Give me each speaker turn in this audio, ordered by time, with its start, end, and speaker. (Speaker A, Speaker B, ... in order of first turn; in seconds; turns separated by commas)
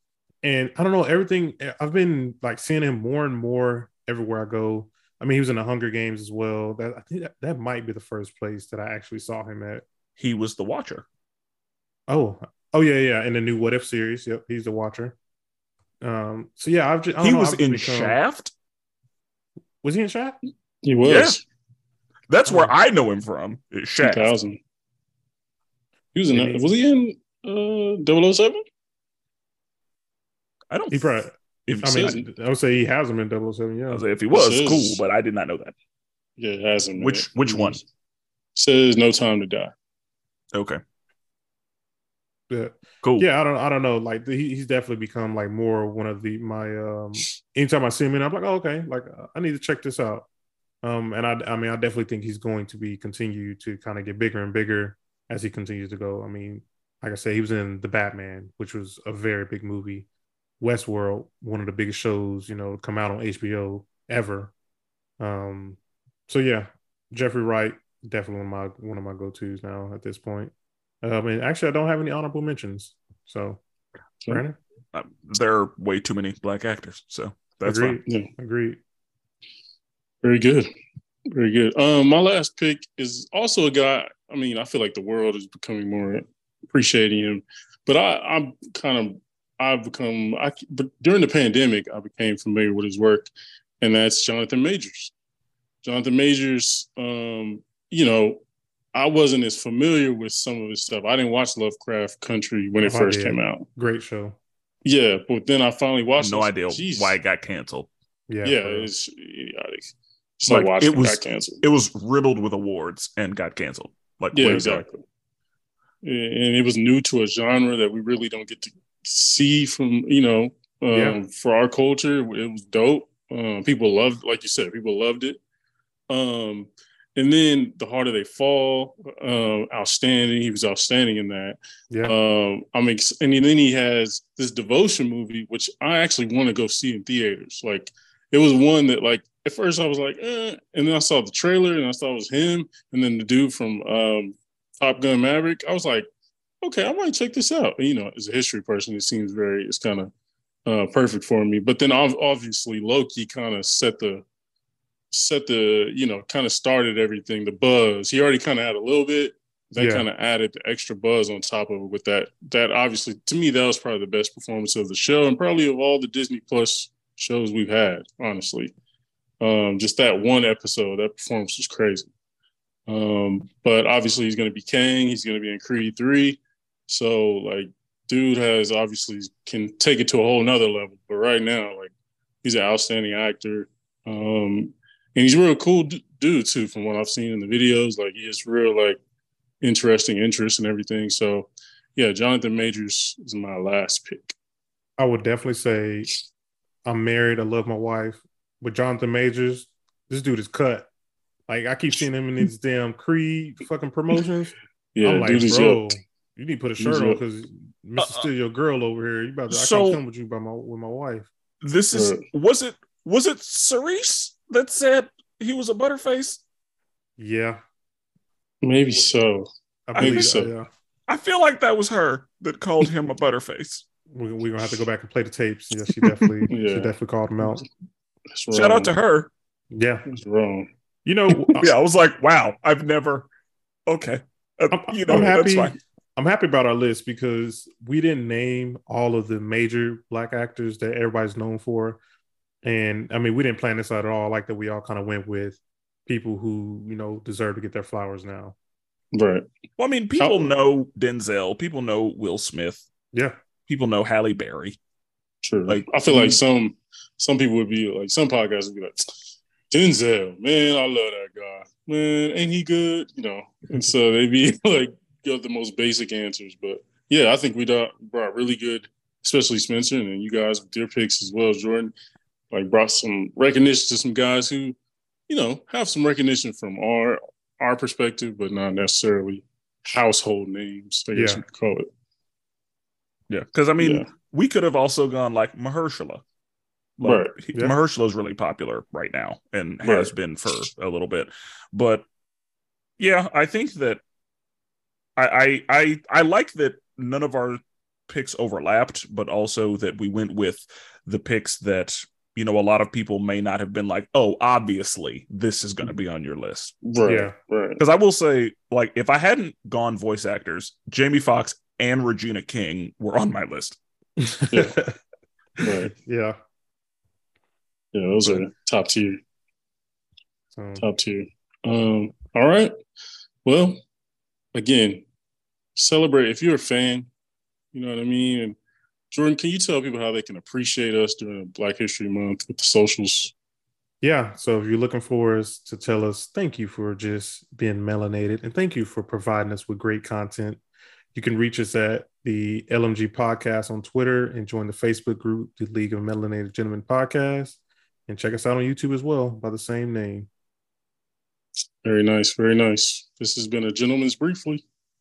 Speaker A: 0.4-9.8, Speaker B: 10.2-11.1, Speaker A: 12.1-15.1, Speaker A: 16.0-18.2, Speaker B: 17.2-18.5, Speaker A: 19.8-20.4, Speaker C: 20.8-21.4, Speaker B: 21.0-21.4, Speaker B: 22.3-24.3, Speaker A: 22.5-22.7, Speaker C: 24.0-24.6, Speaker C: 26.1-28.6, Speaker A: 26.3-26.7, Speaker B: 30.7-32.2, Speaker A: 30.9-34.0, Speaker B: 33.9-35.7, Speaker C: 34.3-35.0, Speaker C: 36.4-37.8, Speaker B: 37.0-37.8, Speaker C: 38.5-39.7, Speaker B: 40.5-40.8, Speaker A: 42.5-50.3, Speaker A: 50.8-60.1, Speaker A: 60.6-64.5, Speaker A: 65.2-65.8, Speaker A: 66.3-73.6, Speaker A: 74.3-74.6, Speaker B: 74.9-78.0, Speaker A: 77.6-78.8, Speaker C: 80.2-80.7, Speaker C: 81.3-95.1, Speaker C: 95.8-98.4, Speaker C: 98.9-103.6, Speaker A: 102.8-104.4, Speaker C: 104.8-107.2, Speaker B: 106.2-107.9, Speaker A: 108.3-108.9, Speaker C: 108.4-109.9, Speaker C: 110.4-111.6, Speaker B: 110.5-114.8, Speaker C: 114.3-115.0, Speaker C: 116.0-125.4, Speaker A: 120.9-121.2, Speaker C: 126.1-146.1, Speaker C: 146.6-150.1, Speaker C: 150.7-154.2, Speaker C: 155.1-168.7, Speaker A: 159.8-160.1, Speaker C: 169.4-172.1, Speaker C: 172.9-181.9, Speaker C: 182.4-189.0, Speaker C: 189.6-194.3, Speaker A: 195.0-196.1, Speaker A: 196.8-200.9, Speaker A: 201.5-211.3, Speaker C: 204.9-205.9, Speaker C: 206.8-207.2, Speaker B: 208.0-208.3, Speaker B: 209.5-210.0, Speaker B: 211.6-216.4, Speaker C: 211.9-212.2, Speaker A: 217.2-217.6, Speaker C: 218.6-220.5, Speaker A: 219.9-220.7, Speaker B: 220.0-220.4, Speaker B: 221.1-223.8, Speaker A: 224.1-227.6, Speaker B: 226.0-226.3, Speaker C: 226.5-226.9, Speaker C: 228.3-228.9, Speaker B: 228.5-229.3, Speaker A: 229.7-230.0, Speaker C: 230.1-230.7, Speaker A: 231.1-231.7, Speaker B: 231.3-233.3, Speaker B: 233.9-235.7, Speaker A: 234.7-242.0, Speaker A: 242.6-248.6, Speaker C: 249.1-249.4, Speaker B: 249.8-252.8, Speaker C: 250.2-250.5, Speaker B: 253.7-254.8, Speaker C: 255.4-271.9, Speaker B: 255.7-256.4, Speaker C: 272.5-274.8, Speaker C: 275.3-281.9, Speaker A: 281.1-281.4, Speaker B: 283.3-286.2, Speaker C: 283.8-284.1, Speaker B: 287.0-292.0, Speaker C: 287.0-287.3, Speaker C: 289.8-290.1, Speaker B: 293.0-294.0, Speaker B: 295.2-306.8, Speaker C: 306.8-307.8, Speaker A: 307.0-307.3, Speaker B: 307.8-313.8, Speaker A: 314.2-315.0, Speaker C: 315.6-315.9, Speaker A: 315.8-316.4, Speaker C: 317.9-319.2, Speaker A: 320.6-320.8, Speaker C: 320.8-322.7, Speaker C: 323.4-323.8, Speaker C: 324.5-325.0, Speaker C: 325.8-327.1, Speaker C: 327.7-328.6, Speaker C: 329.1-333.3, Speaker A: 334.0-340.6, Speaker A: 341.1-350.3, Speaker C: 351.8-354.6